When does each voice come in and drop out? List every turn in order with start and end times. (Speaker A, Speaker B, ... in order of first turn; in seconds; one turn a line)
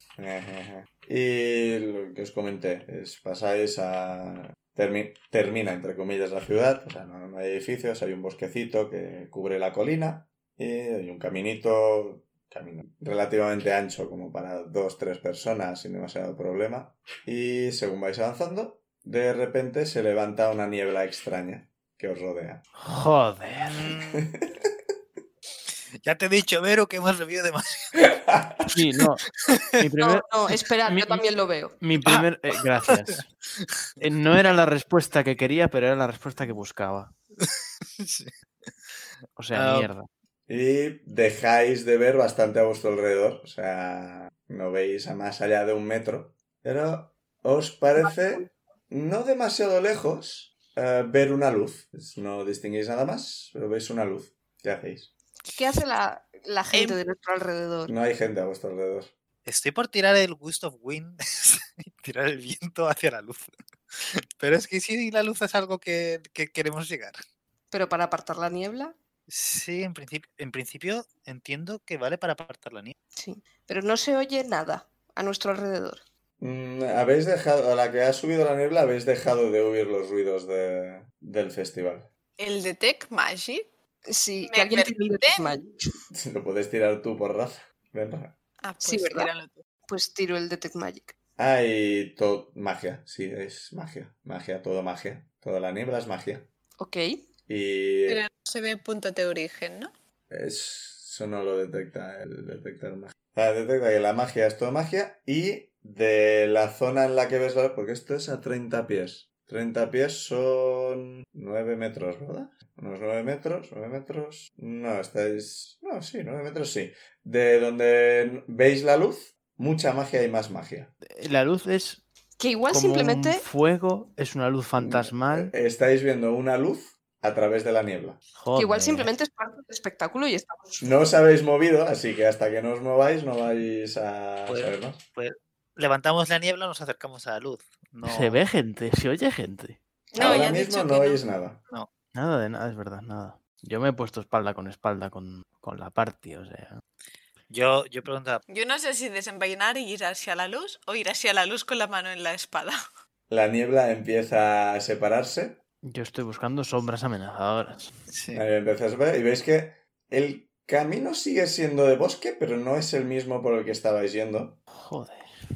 Speaker A: 0.2-22.6
Speaker B: 22.8-23.9
Speaker C: 23.6-24.3
Speaker A: 24.1-24.7
Speaker C: 26.0-28.0
Speaker A: 28.1-28.6
Speaker B: 28.7-29.2
Speaker C: 29.2-29.8
Speaker B: 29.8-30.3
Speaker D: 30.0-31.8
Speaker B: 30.9-31.2
Speaker B: 31.8-33.3
Speaker C: 32.9-33.6
Speaker B: 34.0-37.1
Speaker C: 37.4-38.3
Speaker B: 39.4-40.1
Speaker C: 39.5-39.9
Speaker A: 40.5-55.1
Speaker D: 48.0-48.5
Speaker D: 55.5-57.9
Speaker E: 56.7-57.0
Speaker A: 57.9-59.1
Speaker C: 59.4-67.2
Speaker D: 67.7-68.9
Speaker C: 69.3-73.0
Speaker D: 73.2-76.0
Speaker A: 76.4-82.1
Speaker E: 82.4-83.7
Speaker D: 84.1-85.8
Speaker E: 84.4-85.6
Speaker A: 86.1-88.3
Speaker E: 88.6-89.6
Speaker D: 88.8-89.3
Speaker D: 89.9-91.1
Speaker A: 91.4-96.5
Speaker D: 96.8-97.2
Speaker A: 97.5-98.2
Speaker E: 98.1-99.9
Speaker A: 100.3-120.9
Speaker B: 121.1-122.0
Speaker D: 122.4-123.4
Speaker B: 122.7-125.5
Speaker A: 124.8-128.2
Speaker B: 128.4-129.1
Speaker D: 128.5-130.9
Speaker A: 130.8-135.0
Speaker C: 134.5-138.4
Speaker B: 138.0-139.8
Speaker E: 140.1-141.2
Speaker A: 140.2-141.6
Speaker D: 140.2-140.5
Speaker B: 142.1-146.8
Speaker C: 147.5-148.4
Speaker E: 148.5-152.8
Speaker A: 153.3-155.6
Speaker B: 155.8-157.9
Speaker C: 158.1-158.4
Speaker A: 158.3-164.6
Speaker B: 164.7-165.2